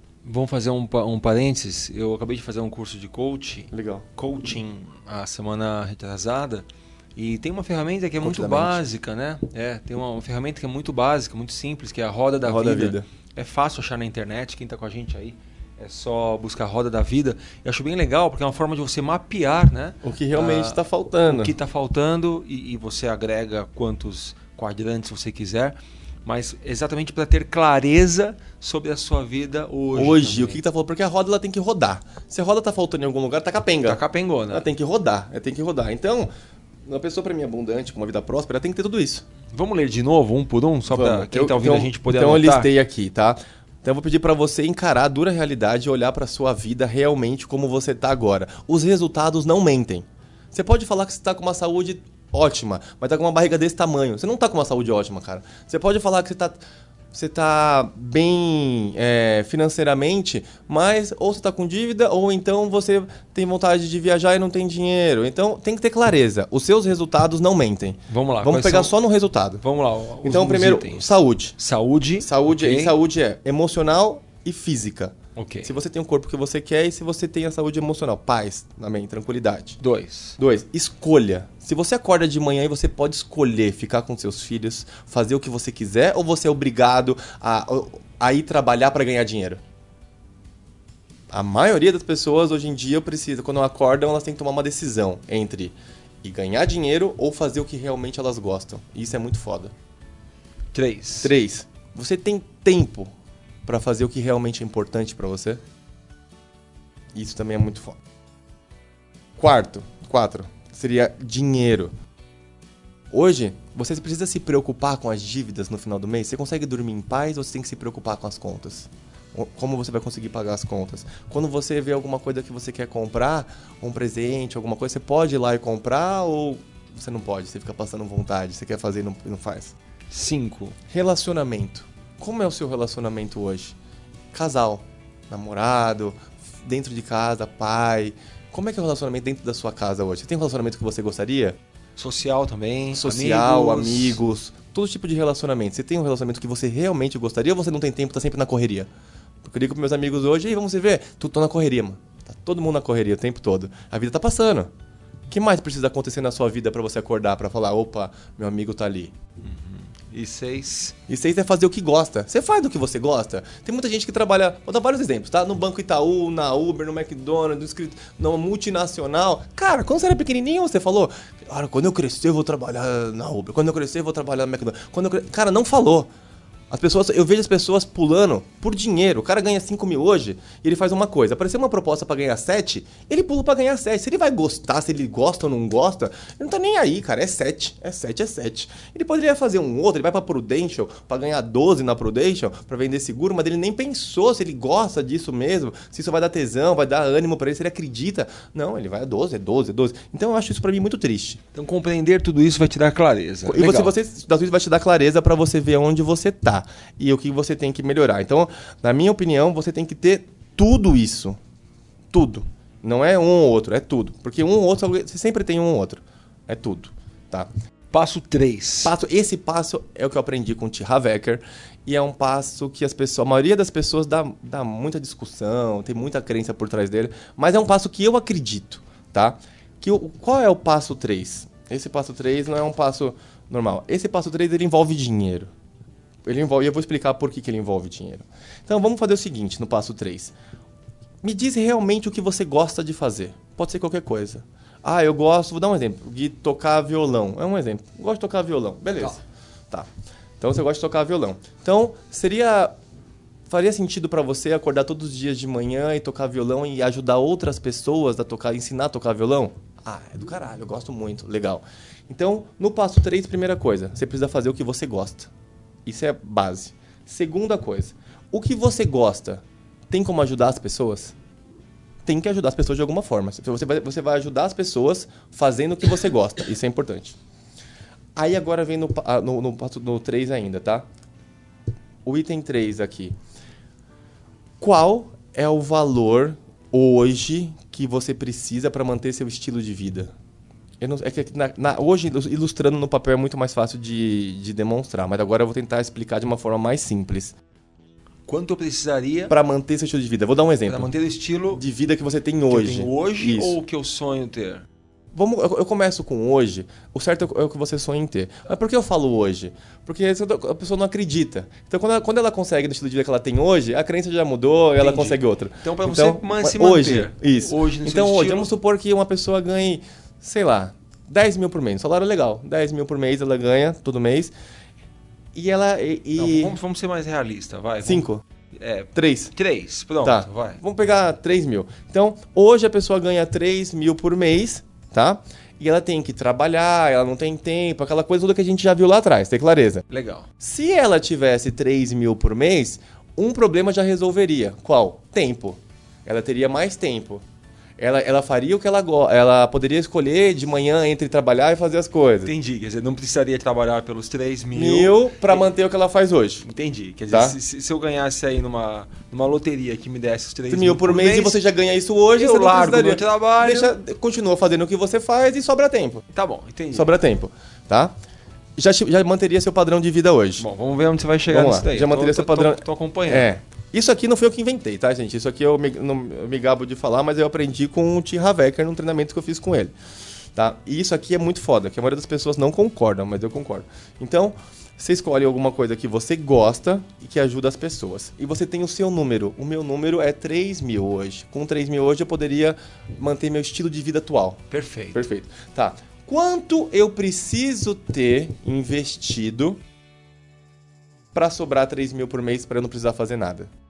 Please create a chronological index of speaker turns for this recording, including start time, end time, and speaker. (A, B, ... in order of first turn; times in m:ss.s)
0:00.2-0:30.6 A
0:03.7-0:04.0 B
0:08.2-0:08.8 B
0:12.4-0:13.0 B
0:20.0-0:21.5 B
0:30.0-0:36.3 B
0:33.9-0:34.7 A
0:36.9-0:39.2 B
0:39.5-0:42.7 A
0:40.9-1:09.6 B
1:08.1-1:08.9 A
1:09.6-1:13.0 A
1:10.2-1:11.6 B
1:12.2-1:19.8 B
1:15.4-1:15.7 A
1:19.8-1:20.4 A
1:20.4-1:29.6 B
1:31.3-1:39.7 B
1:40.7-1:41.3 A
1:41.2-1:43.1 B
1:43.6-1:45.6 B
1:47.1-1:48.0 B
1:49.4-1:51.9 B
1:53.1-2:09.8 B
2:10.1-2:10.8 A
2:10.9-2:13.8 B
2:14.3-2:21.6 B
2:22.0-2:24.2 A
2:22.9-2:28.9 B
2:29.4-2:34.7 B
2:35.3-2:39.1 B
2:39.4-2:41.0 A
2:41.1-2:56.1 B
2:56.7-3:21.4 B
3:21.5-3:23.9 A
3:23.4-3:31.4 B
3:32.1-3:37.5 B
3:37.9-3:38.9 A
3:38.8-3:55.5 B
3:56.2-4:00.3 B
4:01.2-4:09.9 B
4:10.4-4:12.7 B
4:13.5-4:25.3 B
4:25.9-4:31.1 B
4:32.0-4:37.2 B
4:38.2-4:40.9 B
4:42.0-4:43.2 B
4:44.6-4:50.1 B
4:50.8-4:57.4 B
4:58.3-4:59.3 A
4:59.3-5:00.9 B
5:00.7-5:01.6 A
5:01.5-5:03.6 B
5:02.5-5:04.6 A
5:05.1-5:24.3 B
5:14.8-5:18.5 A
5:25.3-5:26.6 B
5:26.2-5:30.6 A
5:27.8-5:28.2 B
5:28.9-5:29.3 B
5:30.0-5:39.8 B
5:39.9-5:40.3 A
5:40.4-5:47.2 B
5:47.8-5:52.3 B
5:52.2-5:55.4 A
5:54.5-5:56.4 B
5:56.4-6:01.4 A
5:57.1-5:57.4 B
6:00.5-6:06.0 B
6:02.2-6:03.8 A
6:06.1-6:06.9 A
6:06.7-6:07.9 B
6:08.6-6:10.4 B
6:10.4-6:13.3 A
6:11.3-6:19.7 B
6:20.4-6:34.4 B
6:34.5-6:35.0 A
6:34.9-6:39.6 B
6:41.1-6:43.5 B